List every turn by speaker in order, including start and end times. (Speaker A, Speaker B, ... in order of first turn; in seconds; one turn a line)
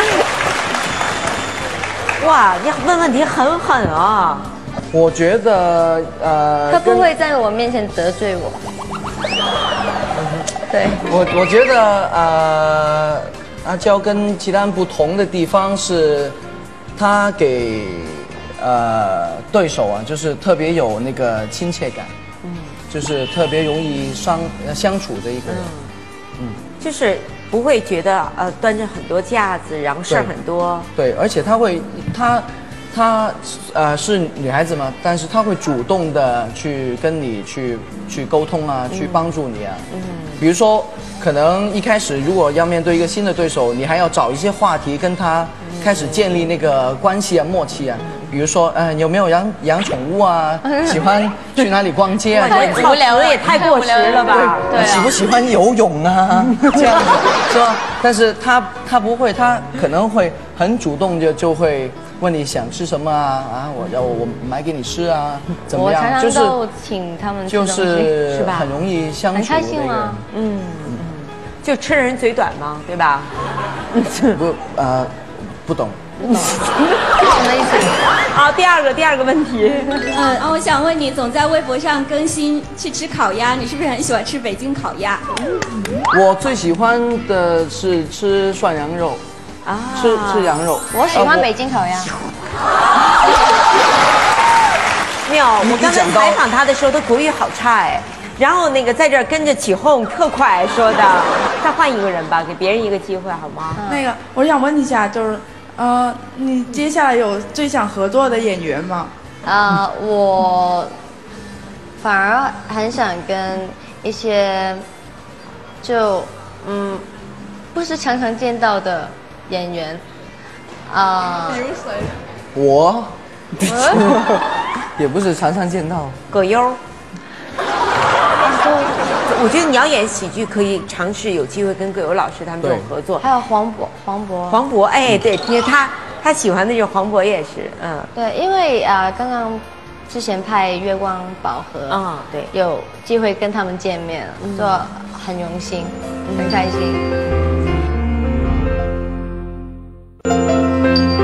Speaker A: 2.2-4.5
Speaker B: 4.9-7.1
Speaker C: 6.7-8.6
Speaker B: 10.1-10.5
Speaker C: 10.7-11.0
Speaker B: 11.0-16.4
Speaker B: 16.9-22.1
Speaker A: 22.4-22.8
Speaker B: 22.9-25.7
Speaker A: 25.4-25.9
Speaker A: 26.8-30.9
Speaker B: 30.9-39.9
Speaker A: 38.9-39.3
Speaker A: 39.9-40.4
Speaker B: 40.4-53.0
Speaker A: 45.6-46.5
Speaker C: 50.6-51.0
Speaker A: 52.4-54.8
Speaker C: 52.4-55.1
Speaker B: 54.7-66.6
Speaker A: 56.7-57.3
Speaker C: 65.7-68.2
Speaker B: 67.5-70.2
Speaker A: 68.3-68.7
Speaker C: 69.3-70.2
Speaker A: 70.3-73.3
Speaker A: 73.9-74.4
Speaker B: 74.3-76.1
Speaker C: 76.2-76.5
Speaker A: 76.3-77.0
Speaker C: 77.2-78.1
Speaker A: 78.3-80.1
Speaker D: 80.1-85.3
Speaker B: 86.1-89.2
Speaker A: 89.7-90.7
Speaker B: 89.9-91.5
Speaker C: 90.9-92.1
Speaker A: 95.2-103.8
Speaker B: 95.6-96.4
Speaker C: 103.8-104.0
Speaker E: 103.8-109.1
Speaker C: 109.4-110.9
Speaker C: 112.0-114.8
Speaker C: 115.8-117.1
Speaker C: 117.7-120.0
Speaker C: 120.9-121.7
Speaker D: 121.6-122.1
Speaker B: 122.5-126.2
Speaker C: 123.7-124.1
Speaker A: 126.3-126.8
Speaker C: 128.4-128.9
Speaker A: 129.3-133.2
Speaker B: 132.6-132.9
Speaker C: 133.2-134.6
Speaker A: 134.5-138.1
Speaker C: 138.1-147.0
Speaker A: 141.9-142.5
Speaker A: 144.4-144.8
Speaker A: 146.3-146.6